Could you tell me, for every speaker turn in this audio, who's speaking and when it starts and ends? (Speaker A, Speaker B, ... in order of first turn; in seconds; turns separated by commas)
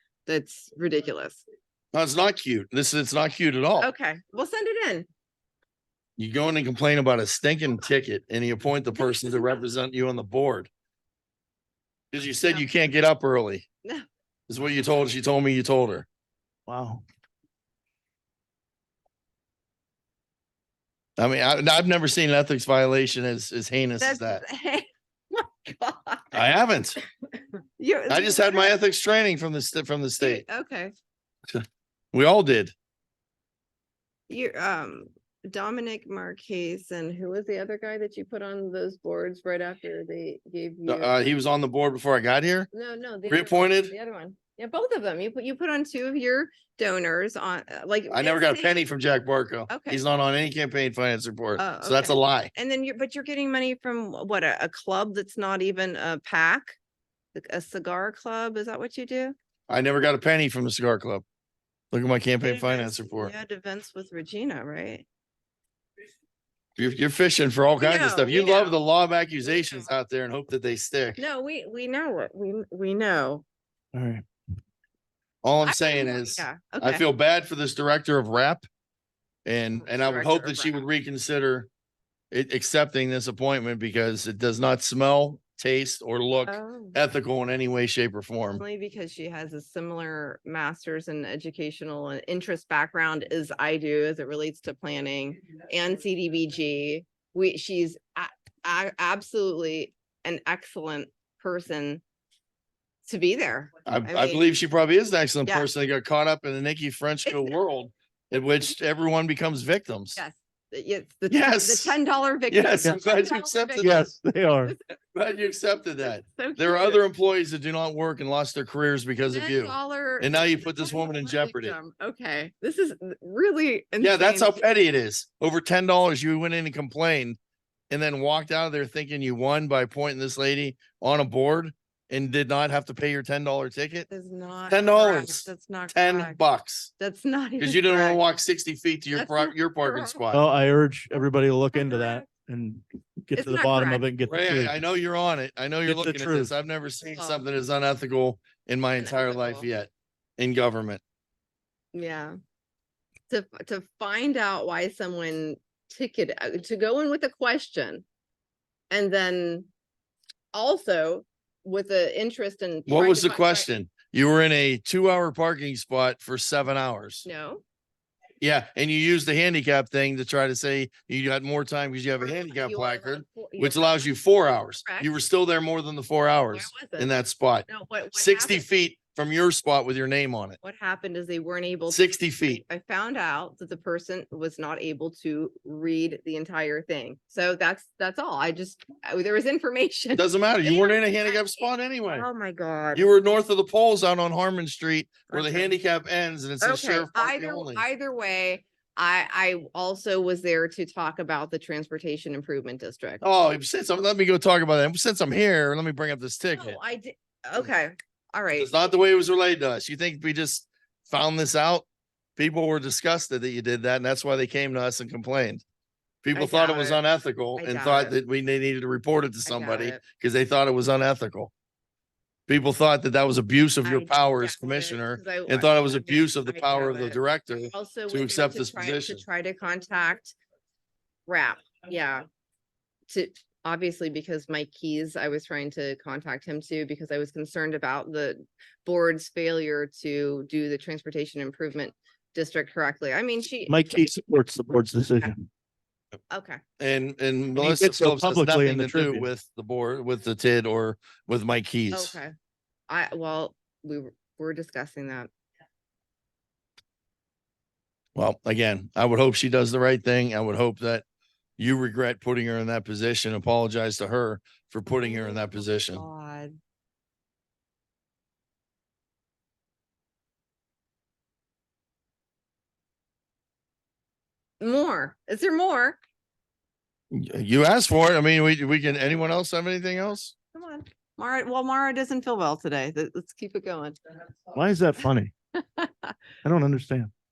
Speaker A: 0.2-1.4, Speaker B: 1.9-3.9, Speaker A: 3.8-5.1, Speaker B: 6.2-10.7, Speaker A: 9.0-9.5, Speaker B: 12.1-13.7, Speaker B: 14.5-16.1, Speaker C: 16.7-17.0, Speaker B: 21.2-24.4, Speaker A: 24.0-26.4, Speaker B: 26.3-27.0, Speaker A: 27.8-28.7, Speaker B: 28.1-30.4, Speaker A: 30.2-30.9, Speaker B: 31.5-32.7, Speaker A: 34.3-41.1, Speaker B: 40.9-42.7, Speaker A: 42.7-48.8, Speaker B: 43.3-43.9, Speaker B: 48.1-52.5, Speaker A: 49.7-50.0, Speaker A: 51.6-56.8, Speaker A: 57.3-59.3, Speaker B: 59.7-61.2, Speaker B: 61.9-63.3, Speaker A: 62.4-65.0, Speaker B: 66.8-71.2, Speaker A: 67.8-68.8, Speaker A: 69.4-69.9, Speaker A: 71.2-73.4, Speaker C: 73.9-74.2, Speaker B: 75.4-78.6, Speaker A: 75.6-77.0, Speaker B: 79.4-81.7, Speaker A: 79.8-80.8, Speaker B: 82.3-88.6, Speaker A: 86.5-87.0, Speaker A: 88.5-102.0, Speaker A: 103.0-104.4, Speaker B: 103.8-110.2, Speaker A: 107.2-107.5, Speaker A: 110.2-114.0, Speaker B: 111.3-112.0, Speaker B: 112.5-114.1, Speaker C: 113.8-114.7, Speaker A: 114.6-114.9, Speaker B: 115.1-121.8, Speaker A: 116.2-117.0, Speaker A: 119.3-124.6, Speaker B: 124.0-127.4, Speaker B: 127.9-134.1, Speaker A: 134.1-136.4, Speaker B: 134.7-136.9, Speaker A: 137.0-138.2, Speaker B: 137.6-140.4, Speaker A: 139.1-140.2, Speaker C: 140.3-144.8, Speaker A: 141.7-142.2, Speaker A: 143.3-144.1, Speaker B: 144.3-151.0, Speaker C: 145.8-146.5, Speaker A: 147.1-147.4, Speaker A: 149.0-149.7, Speaker A: 151.9-152.3, Speaker A: 153.3-158.0, Speaker A: 158.9-159.7, Speaker A: 160.5-163.7, Speaker B: 162.9-167.3, Speaker A: 167.2-167.6, Speaker B: 168.4-180.6, Speaker A: 172.2-174.1, Speaker A: 174.8-175.1, Speaker A: 176.5-177.1, Speaker A: 177.7-178.7, Speaker A: 180.6-193.1, Speaker B: 181.9-182.6, Speaker B: 190.1-192.2, Speaker B: 192.9-197.8, Speaker A: 195.3-195.8, Speaker A: 196.6-203.2, Speaker B: 203.2-206.8, Speaker A: 206.6-208.7, Speaker B: 208.5-211.8, Speaker B: 212.4-215.6, Speaker B: 216.2-221.5, Speaker A: 216.3-217.0, Speaker A: 217.6-218.2, Speaker A: 219.4-220.0, Speaker B: 222.5-229.2, Speaker A: 223.8-227.2, Speaker A: 227.7-230.3, Speaker A: 231.3-232.2, Speaker A: 233.1-243.8, Speaker C: 243.7-245.4, Speaker A: 246.3-246.6, Speaker B: 246.8-252.2, Speaker C: 247.6-249.3, Speaker A: 251.9-252.3, Speaker A: 252.9-255.3, Speaker B: 258.1-261.0, Speaker B: 261.6-266.0, Speaker A: 264.9-266.6, Speaker A: 274.6-276.0, Speaker B: 277.1-280.3, Speaker A: 280.5-283.9, Speaker C: 284.5-285.3, Speaker A: 285.6-286.1, Speaker C: 286.4-287.1